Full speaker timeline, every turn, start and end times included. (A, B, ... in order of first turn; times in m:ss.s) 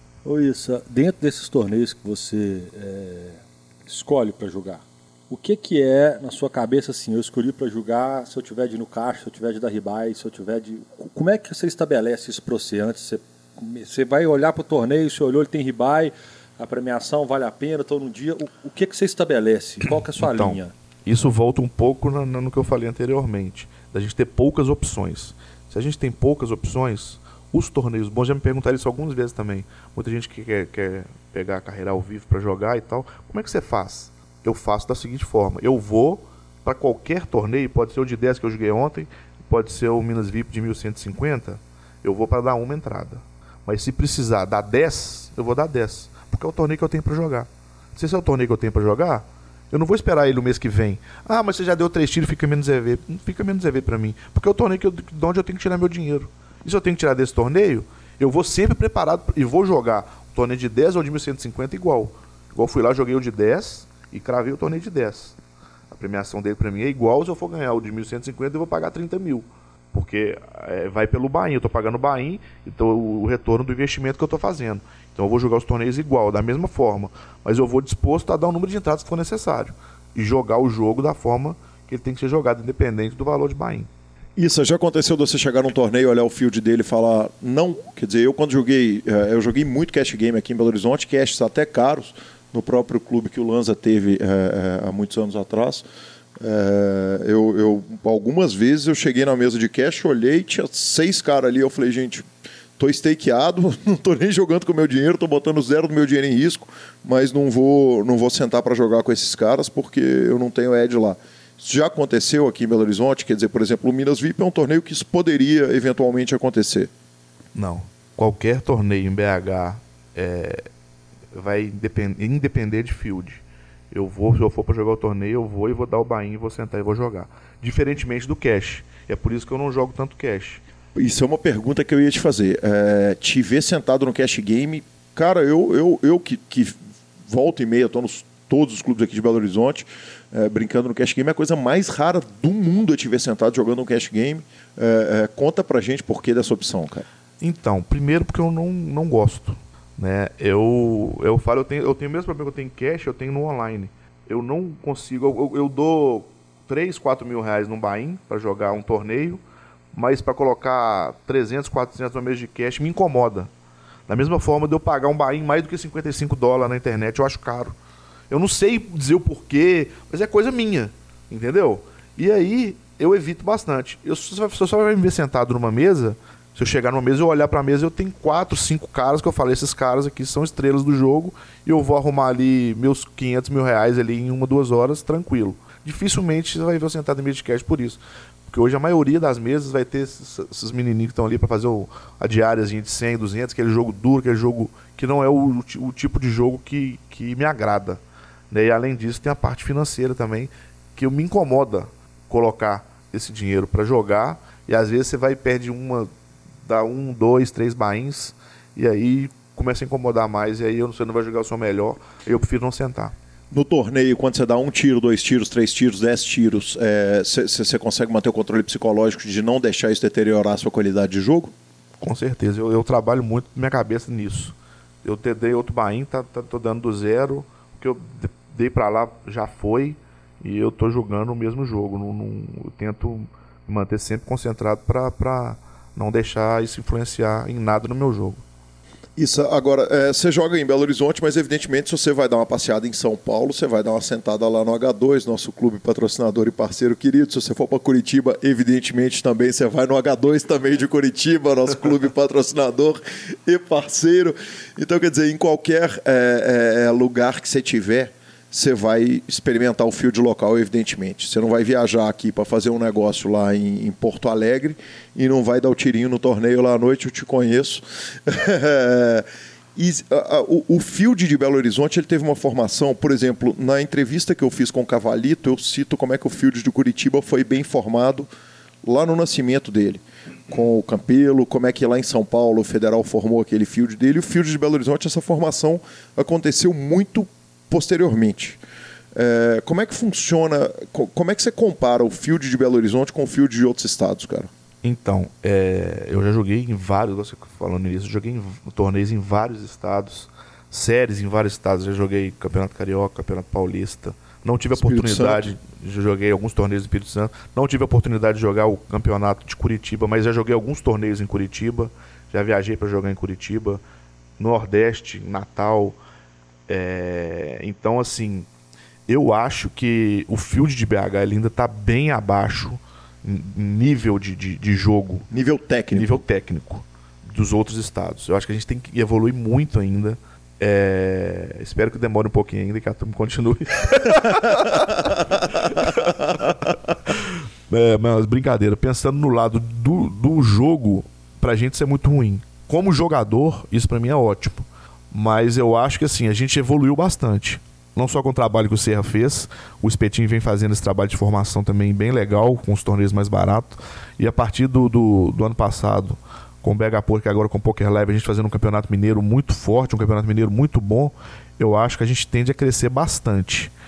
0:00.2-0:20.7 A
0:20.2-1:05.4 B
1:05.9-1:23.9 B
1:24.4-1:35.9 C
1:36.4-1:42.3 C
1:42.8-1:56.9 C
1:57.6-2:00.6 B
2:01.3-2:10.6 B
2:11.0-2:27.1 C
2:27.4-2:39.4 B
2:39.9-2:43.5 B
2:44.1-2:47.8 B
2:48.3-3:18.0 B
3:18.5-3:26.1 B
3:26.7-3:33.2 B
3:33.5-3:41.5 C
3:42.0-3:58.4 B
3:59.2-4:38.3 C
4:38.8-4:48.6 C
4:49.2-4:54.5 C
4:54.8-5:13.8 B
5:04.7-5:05.5 C
5:14.4-5:16.0 B
5:16.7-5:18.5 B
5:19.1-5:25.3 B
5:25.3-5:26.2 C
5:25.9-6:03.7 B
5:35.3-5:36.1 C